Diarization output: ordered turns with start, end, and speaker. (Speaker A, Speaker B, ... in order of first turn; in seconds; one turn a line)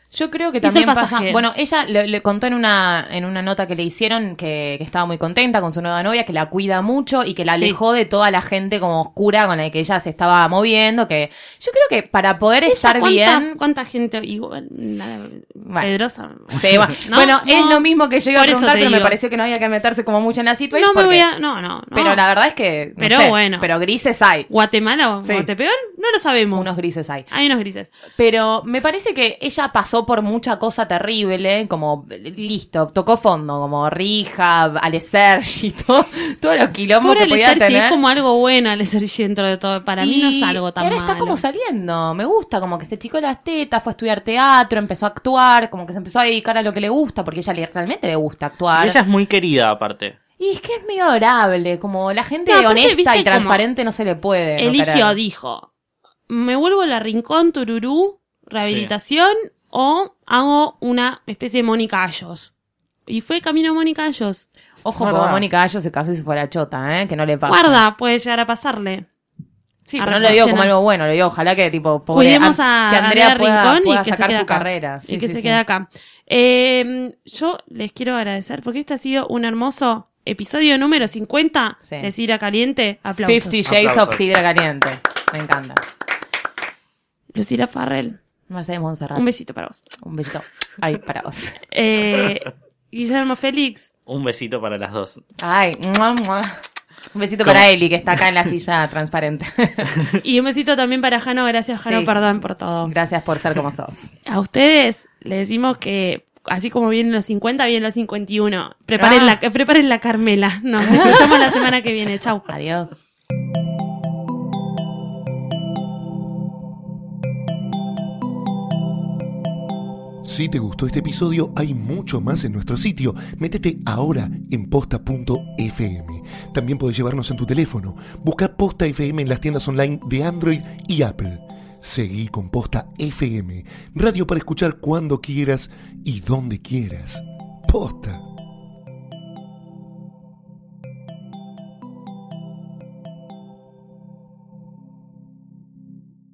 Speaker A: 0.1-13.6
Speaker B: 0.6-1.4
Speaker B: 12.7-19.2
Speaker A: 16.5-21.3
Speaker B: 20.7-22.2
Speaker A: 21.9-24.5
Speaker B: 23.0-23.7
Speaker B: 24.5-26.8
Speaker A: 25.2-25.5
Speaker A: 26.5-27.3
Speaker B: 27.3-27.9
Speaker A: 28.2-38.0
Speaker B: 37.0-41.4
Speaker A: 40.0-49.0
Speaker C: 48.8-50.2
Speaker A: 50.4-55.2
Speaker B: 52.5-53.6
Speaker B: 54.6-55.7
Speaker B: 56.3-62.5
Speaker C: 58.6-58.9
Speaker B: 63.1-64.5
Speaker A: 64.8-67.8
Speaker C: 65.0-65.5
Speaker B: 67.5-69.1
Speaker A: 69.9-75.6
Speaker B: 70.0-70.7
Speaker B: 72.1-83.6
Speaker A: 81.8-82.1
Speaker A: 83.2-85.8
Speaker C: 83.7-84.2
Speaker B: 87.3-88.2
Speaker A: 88.5-89.2
Speaker B: 89.2-89.8
Speaker A: 90.0-91.6
Speaker B: 91.7-93.9
Speaker C: 94.1-95.2
Speaker A: 95.4-96.5
Speaker A: 97.1-99.9
Speaker B: 100.2-102.9
Speaker A: 101.8-102.2
Speaker A: 102.8-104.1
Speaker B: 104.3-112.5
Speaker A: 109.0-109.4
Speaker A: 110.9-111.6
Speaker A: 112.5-113.0
Speaker D: 120.2-138.2